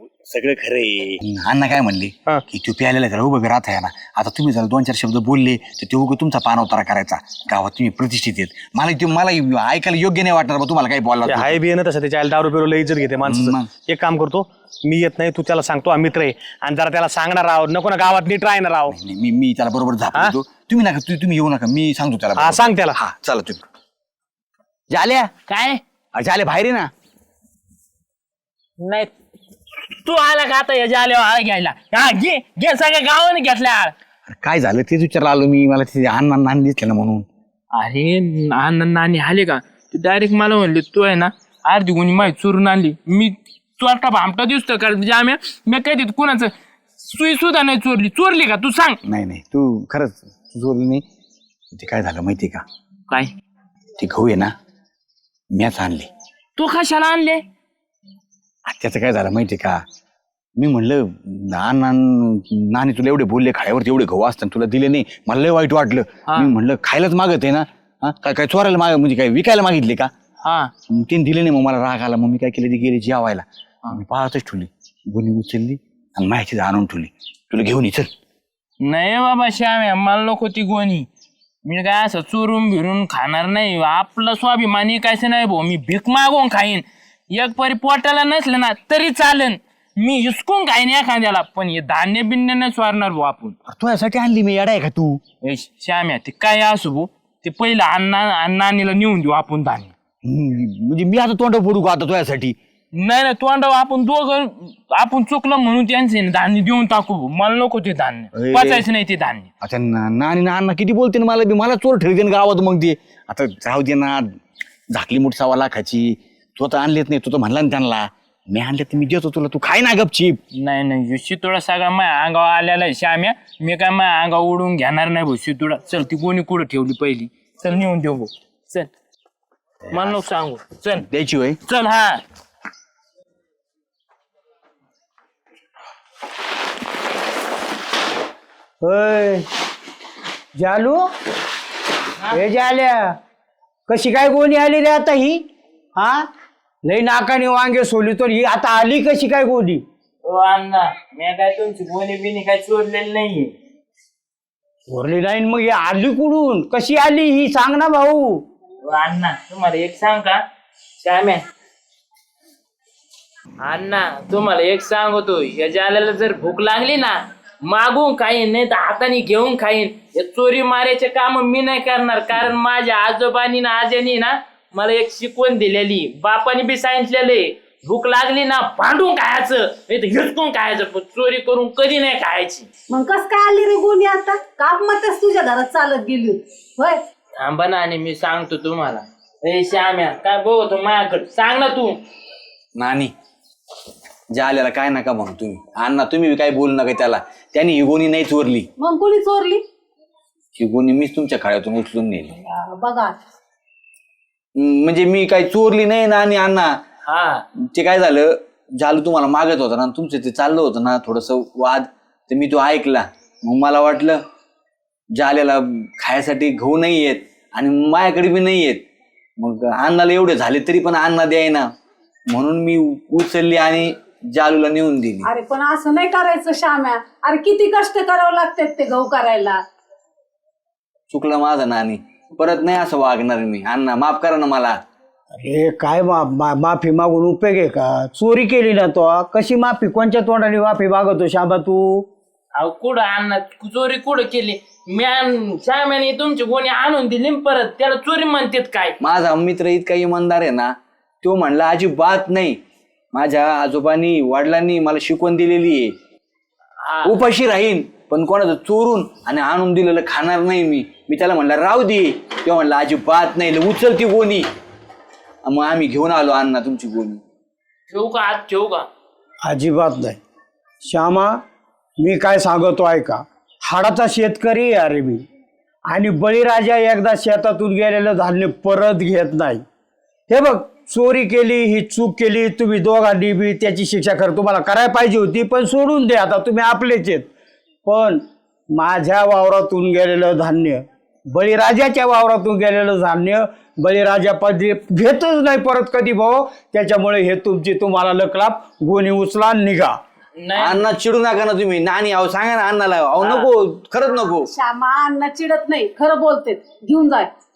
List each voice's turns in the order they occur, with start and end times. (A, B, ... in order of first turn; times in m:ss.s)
0:00.2-0:11.6 A
0:11.3-0:19.0 B
0:13.2-0:13.7 A
0:18.9-0:23.6 A
0:22.4-0:23.0 B
0:24.9-0:25.3 A
0:25.5-0:25.8 C
0:26.1-0:26.9 A
0:28.8-0:29.1 C
0:29.8-0:33.9 C
0:34.3-0:37.3 A
0:37.7-0:49.0 C
0:49.0-0:51.0 A
0:51.7-0:52.6 A
0:54.0-0:54.5 A
0:55.5-0:56.1 A
0:56.6-0:57.4 C
0:58.7-0:59.8 A
1:00.6-1:10.1 A
1:10.4-1:10.7 C
1:10.9-1:18.1 A
1:18.8-1:21.1 C
1:21.6-1:33.6 C
1:33.7-1:35.2 A
1:35.4-1:39.9 C
1:40.2-1:42.6 A
1:42.9-1:49.5 C
1:48.3-1:48.8 A
1:49.6-1:54.2 A
1:54.9-2:00.4 A
2:00.6-2:08.9 C
2:09.9-2:11.1 C
2:09.9-2:10.2 A
2:11.1-2:11.6 A
2:11.7-2:12.2 C
2:18.8-2:19.4 D
2:20.6-2:21.0 D
2:22.3-2:23.2 D
2:23.9-2:26.3 D
2:26.8-2:29.8 D
2:30.2-2:33.5 C
2:34.9-2:38.4 D
2:38.8-2:40.4 C
2:41.0-2:41.4 C
2:43.6-3:02.7 C
3:02.9-3:07.0 E
3:07.4-3:12.0 C
3:12.8-3:13.1 A
3:14.3-3:18.7 A
3:18.8-3:19.6 E
3:20.6-3:22.3 A
3:22.5-3:23.2 E
3:24.6-3:26.7 A
3:27.1-3:27.4 C
3:27.6-3:34.2 A
3:35.1-3:38.8 A
3:39.4-3:41.7 A
3:42.3-3:45.3 A
3:45.2-3:49.6 E
3:51.1-3:54.8 A
3:55.3-4:02.1 D
4:02.6-4:09.0 C
4:09.0-4:12.6 A
4:13.1-4:15.9 A
4:16.8-4:17.1 C
4:17.0-4:24.5 A
4:25.4-4:27.2 A
4:27.9-4:28.9 C
4:29.4-4:30.2 D
4:30.8-4:31.4 D
4:32.0-4:35.2 D
4:35.9-4:39.6 D
4:40.3-4:47.3 D
4:47.8-4:48.2 D
4:48.7-5:00.0 D
5:00.4-5:00.8 C
5:00.6-5:04.5 A
5:03.2-5:03.5 C
5:04.5-5:07.3 E